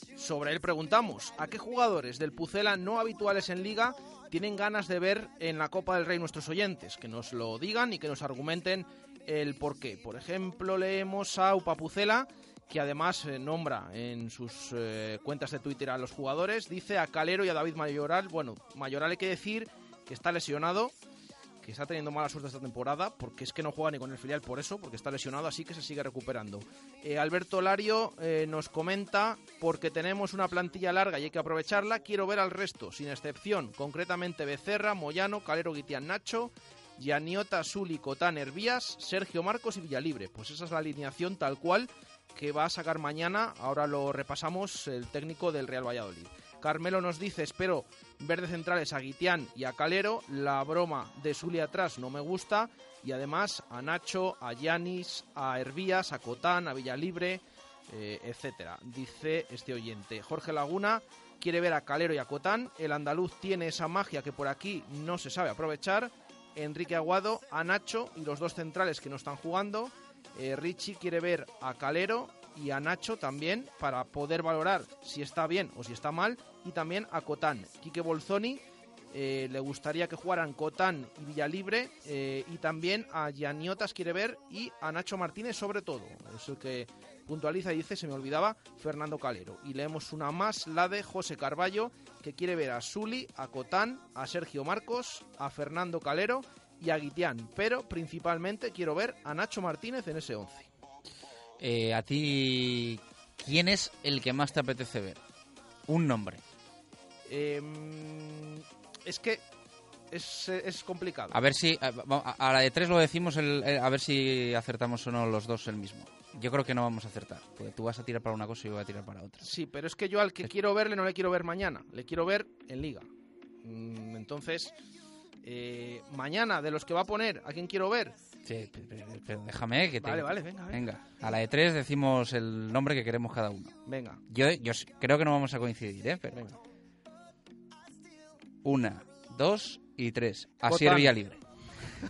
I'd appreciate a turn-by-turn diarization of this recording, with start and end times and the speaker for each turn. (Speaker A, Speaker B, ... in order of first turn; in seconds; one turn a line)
Speaker A: 0.2-20.9
Speaker A: 21.6-78.6
Speaker A: 79.1-100.7
Speaker B: 101.6-105.2
Speaker B: 105.9-106.4
Speaker A: 107.3-109.4
Speaker A: 110.1-111.4
Speaker B: 111.3-119.5
Speaker A: 119.4-123.1
Speaker A: 123.6-124.7
Speaker A: 125.4-128.2
Speaker B: 128.5-133.7
Speaker A: 130.0-130.8
Speaker A: 133.9-134.2
Speaker B: 134.3-136.4
Speaker B: 138.6-141.4
Speaker A: 140.7-141.1